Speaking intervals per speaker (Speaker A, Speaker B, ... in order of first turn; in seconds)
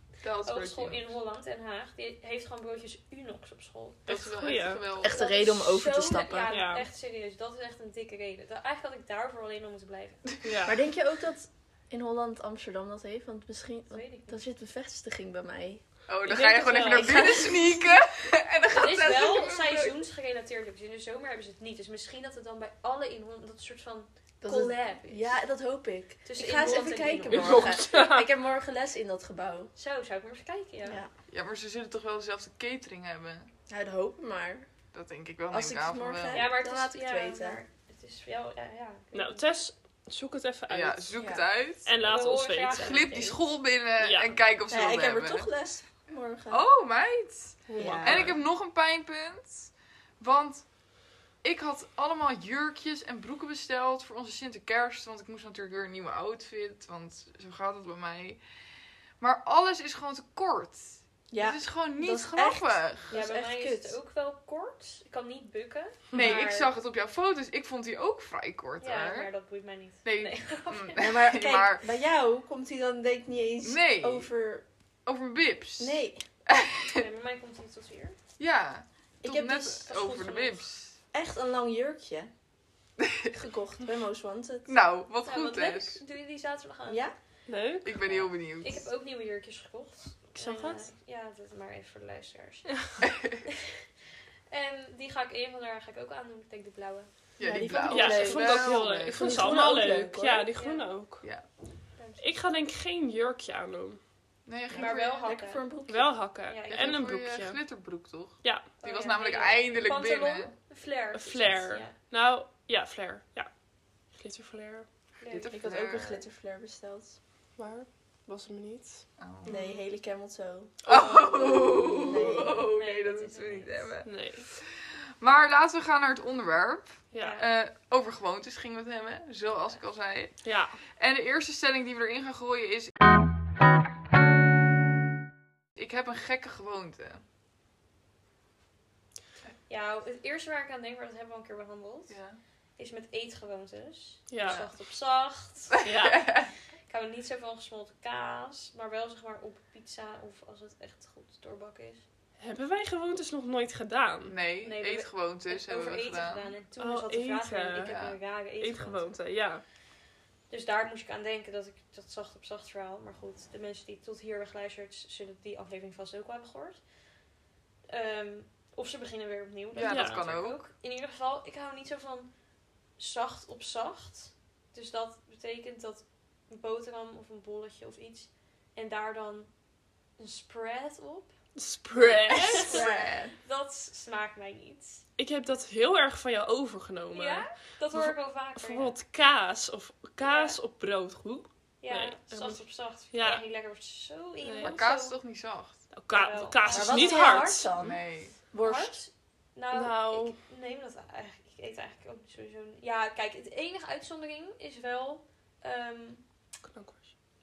Speaker A: 0.2-1.0, 4.0-5.2, 16.1-19.9, 31.3-33.5, 34.9-36.5, 40.7-41.9, 42.7-45.5, 46.5-50.6, 51.4-58.4, 59.2-63.1, 66.1-69.3, 70.0-71.8, 73.6-74.3, 75.0-77.0, 78.4-80.9, 83.0-83.3, 84.7-86.0, 87.8-88.8, 93.1-93.4, 97.4-99.4, 104.5-105.3, 106.7-110.5, 115.3-116.2, 119.2-119.6, 120.8-124.7, 125.2-130.4, 131.0-132.9, 135.8-137.2, 142.1-142.4, 145.8-146.5, 154.3-156.5, 157.8-158.2, 169.7-170.6, 182.0-183.0, 194.6-195.8, 197.7-198.3
Speaker B: 0.4-4.0, 5.1-10.2, 13.9-14.4, 18.7-25.4, 26.2-27.8, 29.8-31.0, 36.3-39.4, 42.0-43.5, 63.1-66.7, 68.8-71.0, 76.9-78.2, 79.9-80.6, 85.2-87.0, 88.0-92.7, 93.5-93.8, 94.5-97.1, 100.5-100.8, 102.0-102.2, 104.7-105.6, 106.5-106.9, 108.8-111.9, 115.2-115.5, 122.7-123.9, 127.2-127.4, 139.7-142.1, 142.8-145.8, 146.9-152.0, 154.6-159.1, 160.5-166.8, 167.9-172.3, 173.0-179.5, 180.2-181.3, 182.4-185.0, 187.1-188.9, 190.2-190.6, 191.8-195.2, 196.1-197.7, 198.6-206.2
Speaker C: 4.1-4.8, 6.5-6.9, 10.4-10.8, 16.2-17.2, 27.3-28.3, 39.1-41.2, 41.9-43.1, 44.0-44.4, 47.7-48.4, 87.5-88.0, 97.8-101.2, 102.2-104.0, 105.9-107.6, 111.1-113.5, 114.1-114.9, 115.5-116.0, 117.6-119.0, 124.0-124.5, 127.1-127.4, 130.4-130.8, 144.3-144.7, 145.8-146.2, 152.4-154.3, 156.8-157.9, 158.6-159.6, 169.8-170.2, 181.6-182.8, 185.2-193.4, 194.4-194.8, 195.9-197.7, 199.7-200.4, 206.6-207.0
Speaker D: 5.0-6.6, 10.6-15.8, 16.8-17.9, 24.4-29.7, 30.8-31.1, 33.7-34.7, 35.5-37.6, 41.2-41.4, 44.7-46.6, 47.8-48.4, 61.3-64.0, 71.0-74.6, 75.8-76.2, 79.2-79.9, 81.1-82.3, 83.3-84.7, 86.9-87.1, 90.4-90.8, 97.4-100.5, 104.7-106.1, 115.5-117.2, 119.5-122.7, 182.6-183.3, 196.7-199.0